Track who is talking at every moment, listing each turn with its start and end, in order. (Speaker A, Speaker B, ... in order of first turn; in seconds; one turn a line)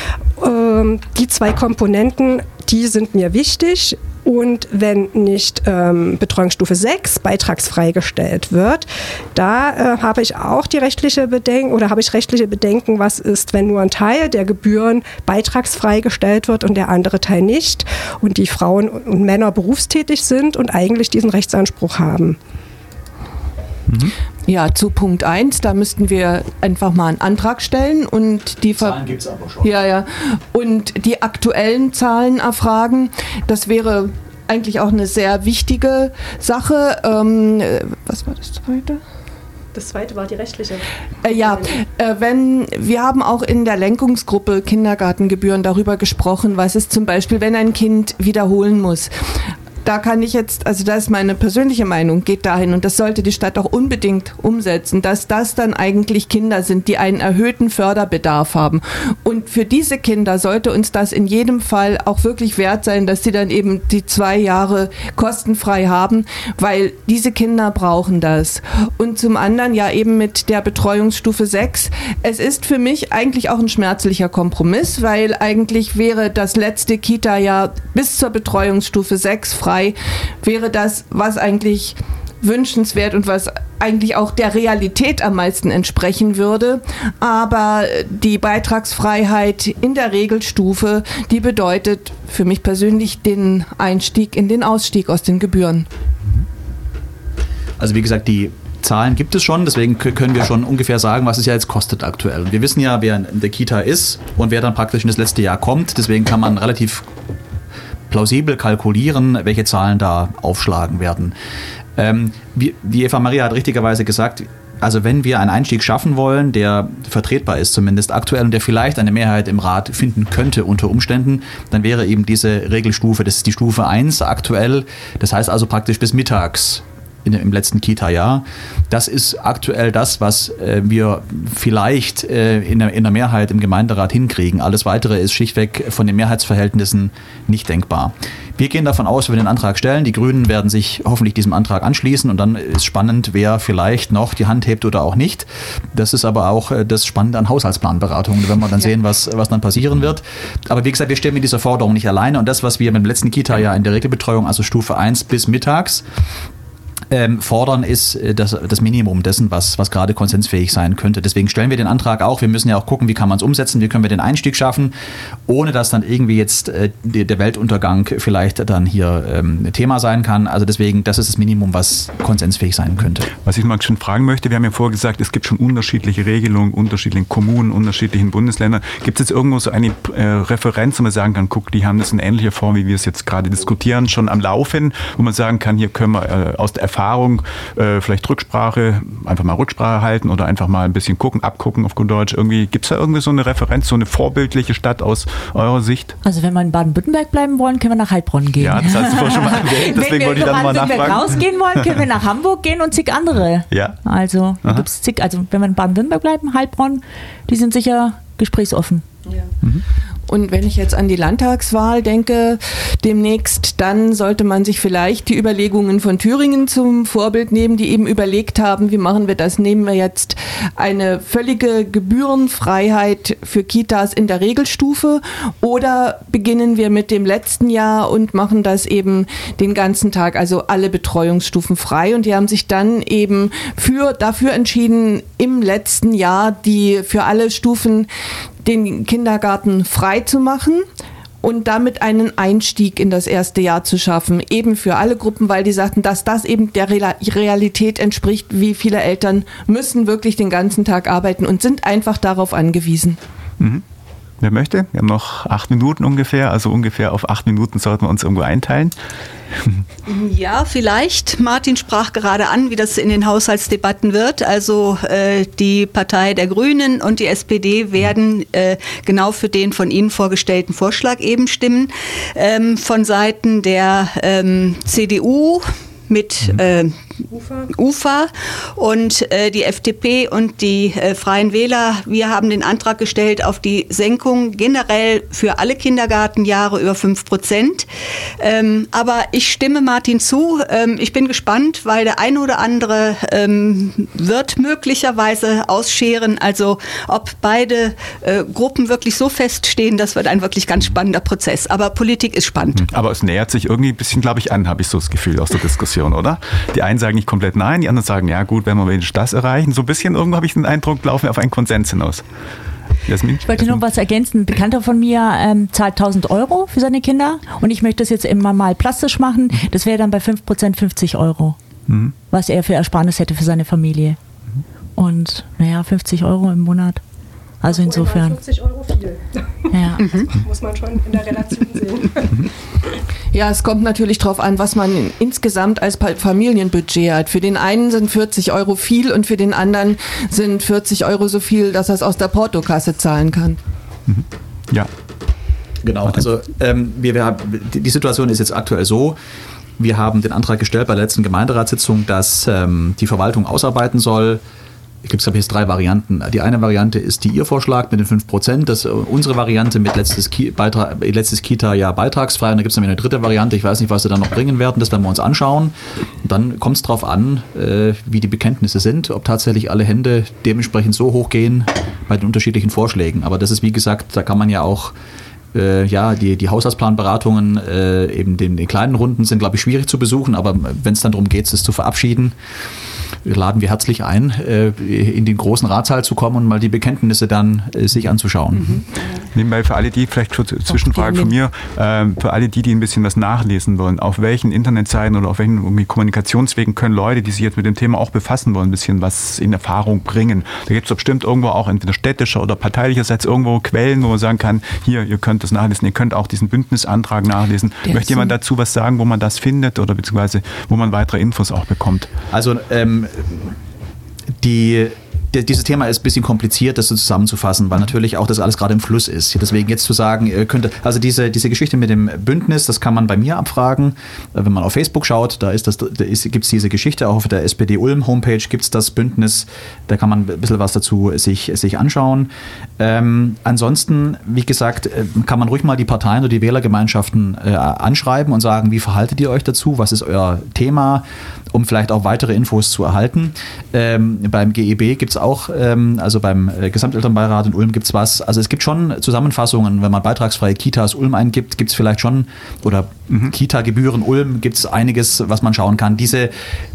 Speaker A: 0.4-22.4
Speaker B: 23.9-24.1
Speaker C: 24.5-29.1
Speaker D: 28.8-29.7
Speaker C: 29.6-39.0
Speaker A: 39.7-40.9
Speaker C: 41.2-49.1
Speaker C: 49.8-95.9
Speaker D: 97.8-107.1
Speaker D: 108.1-111.3
Speaker D: 112.0-156.1
Speaker D: 157.1-164.9
Speaker D: 165.5-173.3
Speaker B: 173.3-196.1
Speaker E: 196.2-209.0
Speaker B: 198.6-201.4
Speaker B: 203.7-204.0
Speaker C: 210.3-238.1
Speaker C: 238.6-240.8
Speaker C: 241.4-253.2
Speaker B: 254.4-258.9
Speaker F: 260.1-277.0
Speaker A: 277.3-277.7
Speaker F: 277.7-287.9
Speaker F: 288.4-302.9
Speaker B: 302.8-312.2
Speaker B: 313.1-313.8
Speaker E: 313.4-321.6
Speaker B: 321.9-322.1
Speaker E: 322.3-324.2
Speaker E: 325.0-327.0
Speaker E: 327.6-328.4
Speaker A: 327.6-332.5
Speaker E: 329.7-330.1
Speaker F: 330.0-330.3
Speaker C: 333.3-343.6
Speaker B: 344.1-344.9
Speaker D: 345.8-349.2
Speaker D: 349.8-354.4
Speaker D: 355.0-374.9
Speaker D: 375.5-382.4
Speaker D: 383.2-388.8
Speaker B: 389.3-412.1
Speaker D: 412.3-413.6
Speaker D: 414.4-456.4